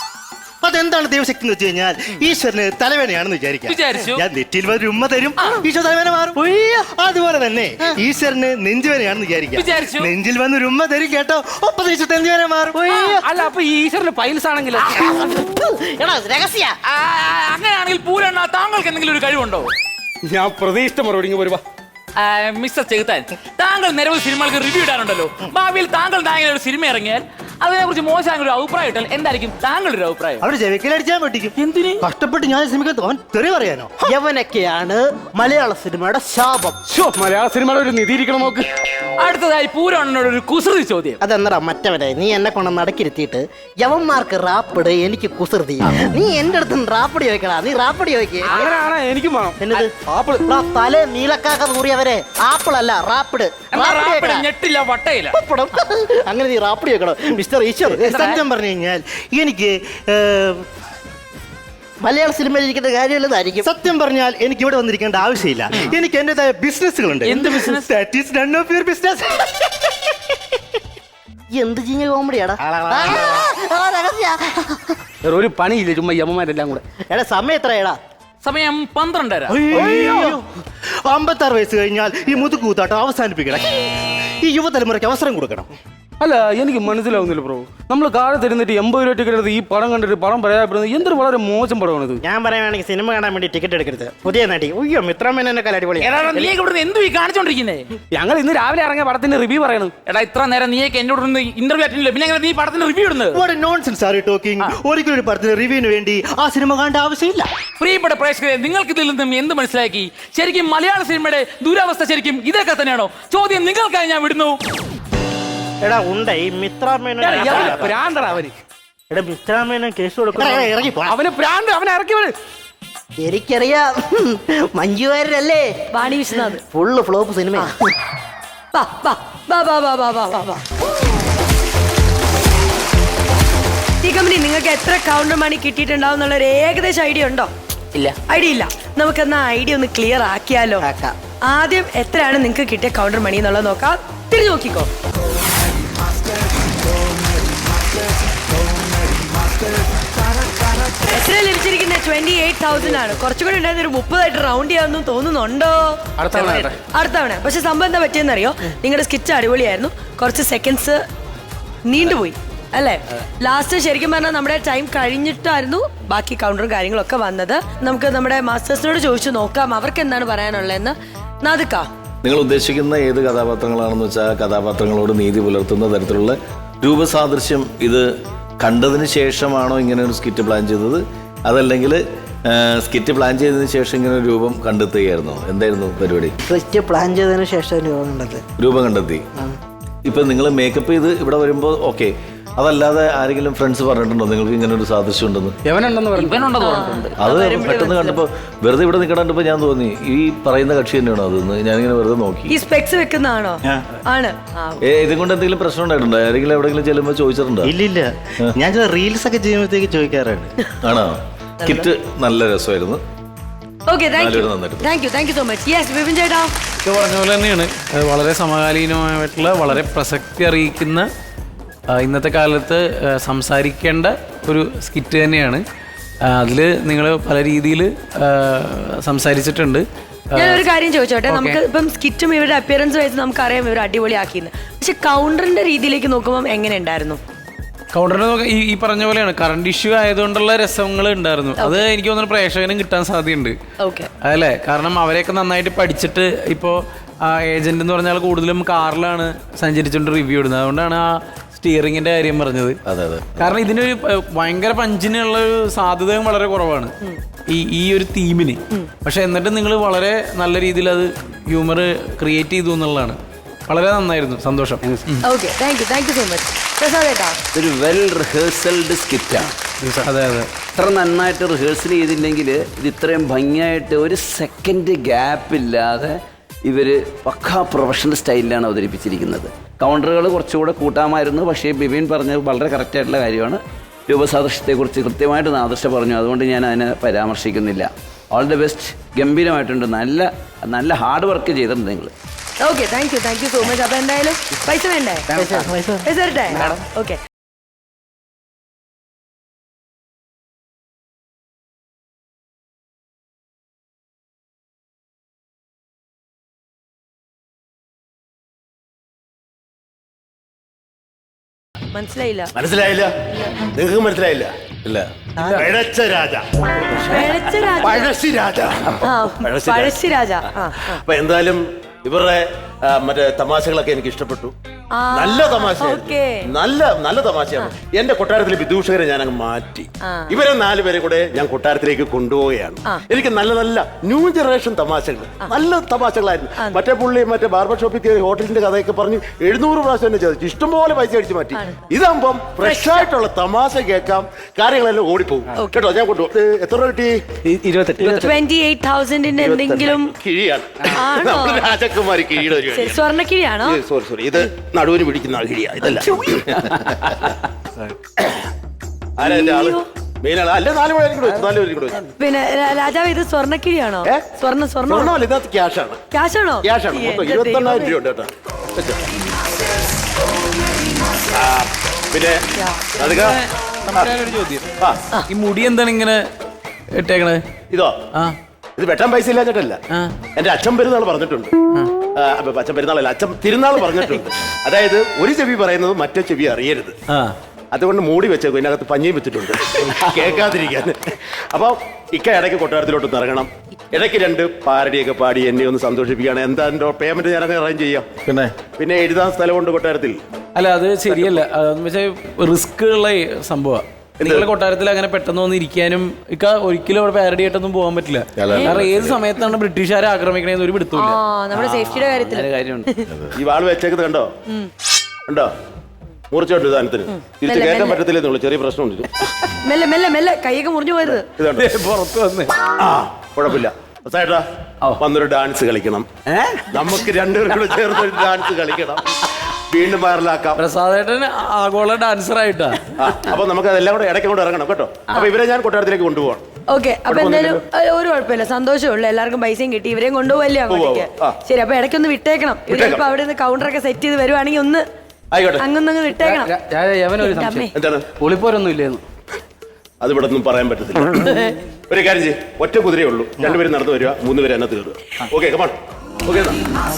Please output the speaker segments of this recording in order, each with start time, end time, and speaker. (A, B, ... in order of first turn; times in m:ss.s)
0:00.6-0:12.8 A
0:03.7-0:04.2 B
0:06.4-0:06.8 C
0:09.6-0:10.1 B
0:12.8-0:13.3 C
0:12.9-0:13.2 B
0:13.0-0:14.9 D
0:14.8-0:16.8 C
0:16.9-0:19.7 B
0:20.3-0:21.6 D
0:22.2-0:30.4 B
0:30.4-0:34.1 A
0:31.6-0:32.0 B
0:34.1-0:36.8 C
0:36.8-0:38.7 D
0:39.2-0:41.2 B
0:41.2-0:48.6 C
0:48.4-0:50.5 D
0:49.6-0:49.9 C
0:50.4-0:54.4 C
0:53.7-0:55.4 B
0:55.3-0:58.0 C
0:57.8-0:58.4 B
0:58.0-1:00.6 A
1:02.0-1:03.7 C
1:03.6-1:09.5 A
1:07.2-1:07.9 B
1:11.5-1:15.0 C
1:12.6-1:13.4 A
1:15.2-1:16.8 D
1:17.1-1:18.0 C
1:18.4-1:19.6 B
1:19.6-1:20.4 A
1:19.7-1:20.4 D
1:21.0-1:25.7 A
1:26.2-1:32.2 D
1:32.3-1:36.1 A
1:36.0-1:37.9 B
1:38.1-1:39.9 D
1:40.0-1:43.4 B
1:43.3-1:47.5 A
1:47.8-1:54.6 B
1:55.8-1:58.0 A
1:57.2-1:58.5 D
1:57.4-1:57.8 B
1:59.1-2:01.1 A
2:00.3-2:02.3 D
2:03.2-2:05.7 C
2:05.9-2:06.6 E
2:06.7-2:07.9 C
2:08.7-2:10.6 E
2:14.0-2:17.5 E
2:18.3-2:20.8 E
2:20.8-2:21.2 C
2:21.5-2:24.9 E
2:31.0-2:41.0 E
2:36.2-2:36.8 D
2:41.8-2:51.9 E
2:52.2-2:58.1 F
2:58.6-3:06.3 F
3:06.5-3:08.4 C
3:08.6-3:09.2 F
3:10.0-3:15.6 F
3:15.6-3:16.6 D
3:16.1-3:17.1 B
3:16.6-3:18.2 E
3:17.2-3:22.6 F
3:22.5-3:24.8 E
3:24.8-3:27.7 F
3:27.6-3:30.5 A
3:30.8-3:33.0 F
3:31.6-3:31.9 E
3:33.9-3:36.5 E
3:34.2-3:34.9 F
3:36.8-3:41.1 G
3:41.9-3:45.6 G
3:46.3-3:49.8 G
3:50.4-3:50.6 G
3:50.4-3:57.2 E
3:51.3-3:51.6 G
3:57.9-4:03.6 G
4:01.6-4:01.8 E
4:03.8-4:04.1 E
4:04.2-4:06.8 G
4:07.3-4:12.8 G
4:12.9-4:13.5 F
4:13.4-4:16.9 G
4:17.5-4:23.2 G
4:23.7-4:25.2 G
4:24.8-4:25.1 D
4:25.2-4:27.4 E
4:27.5-4:29.5 H
4:29.8-4:30.1 D
4:30.1-4:30.5 G
4:30.7-4:52.1 H
4:52.6-4:55.3 E
4:55.3-4:55.7 D
4:55.4-4:56.0 C
4:56.0-4:57.2 E
4:56.5-4:56.8 D
5:11.9-5:12.5 E
5:12.5-5:13.1 I
5:13.7-5:14.5 I
5:15.4-5:16.9 I
5:17.0-5:18.2 E
5:17.9-5:19.9 I
5:19.0-5:21.0 E
5:21.0-5:24.5 I
5:24.9-5:26.4 E
5:25.1-5:47.2 I
5:30.0-5:30.4 E
5:42.6-5:43.1 E
5:45.6-5:45.8 E
5:47.5-5:48.3 D
5:48.1-5:50.1 E
5:49.4-5:53.0 I
5:50.9-5:51.7 E
5:52.7-5:53.8 E
5:53.6-5:57.3 I
5:59.2-6:02.0 I
5:59.2-5:59.8 E
6:02.2-6:05.2 E
6:04.9-6:06.0 I
6:06.1-6:08.0 E
6:06.6-6:09.0 I
6:11.3-6:12.4 I
6:12.6-6:12.8 E
6:13.0-6:13.4 I
6:13.1-6:14.6 G
6:15.3-6:16.2 G
6:17.0-6:17.4 G
6:18.8-6:19.8 I
6:20.3-6:21.5 I
6:22.1-6:26.9 I
6:27.7-6:38.1 I
6:38.2-6:38.5 F
6:38.8-6:40.2 I
6:40.6-6:51.2 G
6:41.1-6:41.4 I
6:44.2-6:44.5 I
6:48.4-6:49.2 F
6:50.9-6:53.1 E
6:51.6-6:52.9 H
6:53.1-6:53.4 F
6:53.3-6:54.3 I
6:56.3-6:59.1 I
6:57.3-6:58.0 E
6:59.6-7:01.2 E
7:01.3-7:01.7 I
7:01.6-7:02.5 G
7:02.8-7:04.4 I
7:05.0-7:06.1 I
7:06.3-7:07.1 H
7:06.7-7:09.0 I
7:09.7-7:10.6 I
7:10.6-7:12.8 G
7:13.0-7:16.4 I
7:16.7-7:24.8 E
7:17.0-7:17.6 I
7:20.7-7:21.4 I
7:22.7-7:23.0 I
7:25.3-7:25.6 I
7:25.6-7:26.5 E
7:26.2-7:29.0 D
7:27.2-7:27.7 E
7:27.7-7:28.1 I
7:30.0-7:31.2 I
7:31.2-7:31.5 E
7:31.9-7:36.6 I